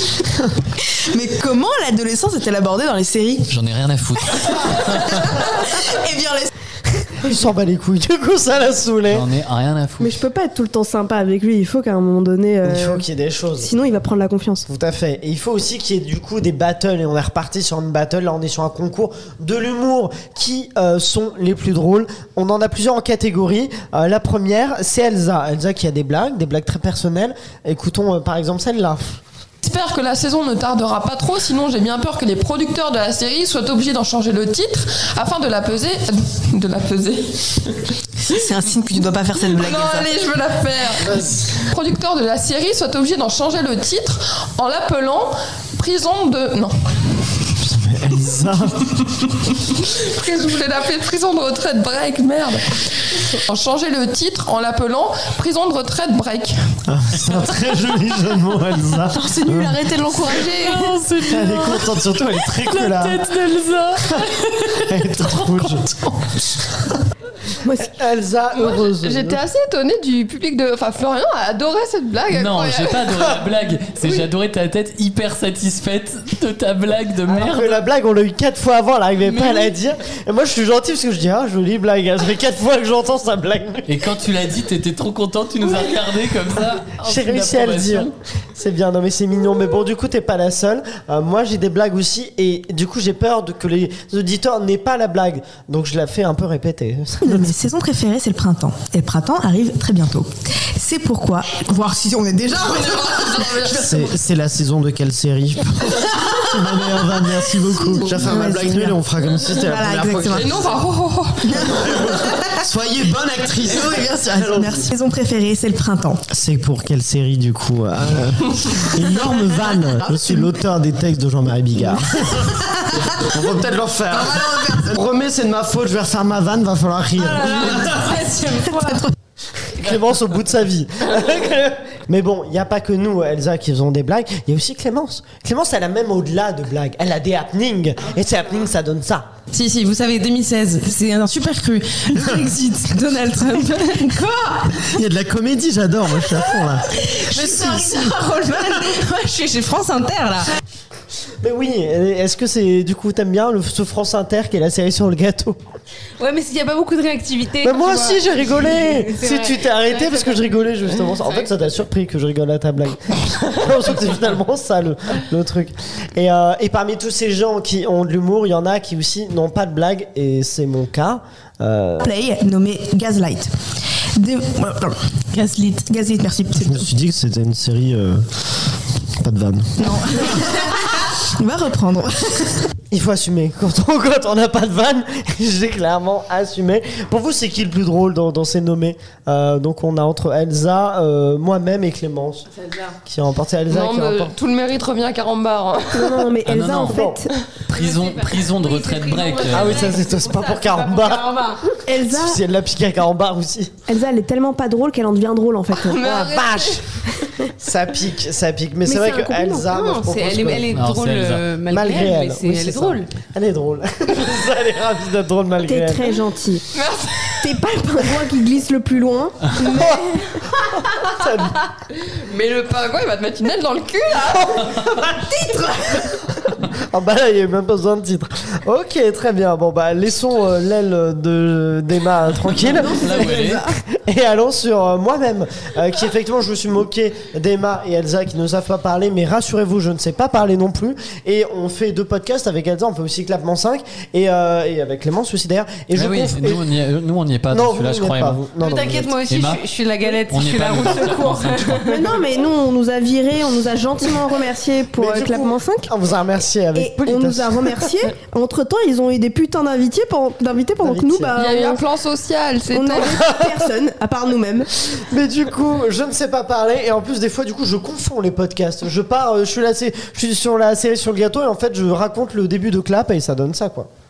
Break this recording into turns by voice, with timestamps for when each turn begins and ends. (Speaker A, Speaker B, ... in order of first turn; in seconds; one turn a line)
Speaker A: 0.8-3.5
Speaker B: 3.5-5.3
Speaker A: 4.2-6.5
Speaker C: 7.2-9.3
Speaker B: 9.1-10.2
Speaker D: 10.0-13.0
Speaker C: 12.6-13.7
Speaker D: 13.6-14.7
Speaker C: 14.7-29.2
Speaker E: 29.6-37.4
Speaker A: 38.2-40.1
Speaker E: 39.4-46.7
Speaker F: 41.0-41.5
Speaker F: 47.6-49.0
Speaker E: 49.6-56.5
Speaker F: 56.9-59.8
Speaker C: 57.7-59.4
Speaker A: 59.4-60.0
Speaker E: 60.0-60.9
Speaker B: 60.5-64.6
Speaker F: 61.3-61.9
Speaker C: 61.3-63.3
Speaker C: 64.8-65.8
Speaker F: 64.9-66.1
Speaker D: 67.6-67.9
Speaker C: 67.8-69.4
Speaker E: 68.5-73.1
Speaker B: 72.3-77.8
Speaker C: 77.3-84.0
Speaker B: 79.3-79.7
Speaker B: 83.9-88.1
Speaker C: 87.0-97.5
Speaker A: 97.2-104.1
Speaker E: 102.7-104.1
Speaker F: 103.7-110.7
Speaker A: 107.9-109.0
Speaker A: 109.6-110.5
Speaker E: 110.3-111.4
Speaker A: 111.4-112.5
Speaker F: 111.7-114.9
Speaker A: 113.6-116.2
Speaker F: 116.3-128.2
Speaker A: 119.5-120.5
Speaker A: 124.4-124.8
Speaker G: 127.1-129.1
Speaker C: 129.7-139.3
Speaker H: 139.5-144.0
Speaker G: 142.1-144.7
Speaker F: 144.8-148.0
Speaker G: 147.1-149.0
Speaker H: 147.3-150.4
Speaker G: 149.7-150.3
Speaker C: 151.4-155.6
Speaker G: 156.2-161.5
Speaker C: 157.6-172.1
Speaker A: 172.0-173.5
Speaker A: 174.2-176.9
Speaker F: 176.6-179.8
Speaker A: 179.8-182.7
Speaker C: 182.9-192.5
Speaker G: 192.5-192.9
Speaker C: 193.0-194.3
Speaker E: 193.7-196.2
Speaker D: 195.9-197.3
Speaker B: 196.5-197.0
Speaker C: 196.8-197.2
Speaker B: 197.7-200.0
Speaker G: 197.7-201.6
Speaker C: 199.5-201.4
Speaker D: 201.9-202.4
Speaker C: 201.9-203.7
Speaker D: 203.9-206.3
Speaker E: 205.7-206.8
Speaker C: 206.1-206.8
Speaker C: 207.6-210.7
Speaker D: 208.8-209.7
Speaker G: 209.7-213.1
Speaker B: 210.7-211.4
Speaker C: 211.7-216.2
Speaker D: 215.6-216.6
Speaker E: 216.7-217.4
Speaker D: 217.4-220.3
Speaker C: 219.6-220.2
Speaker C: 220.9-221.6
Speaker E: 222.2-224.7
Speaker C: 224.8-225.5
Speaker C: 226.7-246.6
Speaker B: 232.8-233.6
Speaker D: 233.3-233.7
Speaker B: 245.9-251.9
Speaker C: 247.5-249.1
Speaker G: 248.6-252.2
Speaker D: 251.8-255.9
Speaker C: 254.9-258.0
Speaker D: 256.7-261.8
Speaker C: 260.8-261.3
Speaker E: 261.4-263.1
Speaker D: 262.7-264.7
Speaker C: 263.2-263.6
Speaker C: 264.9-273.9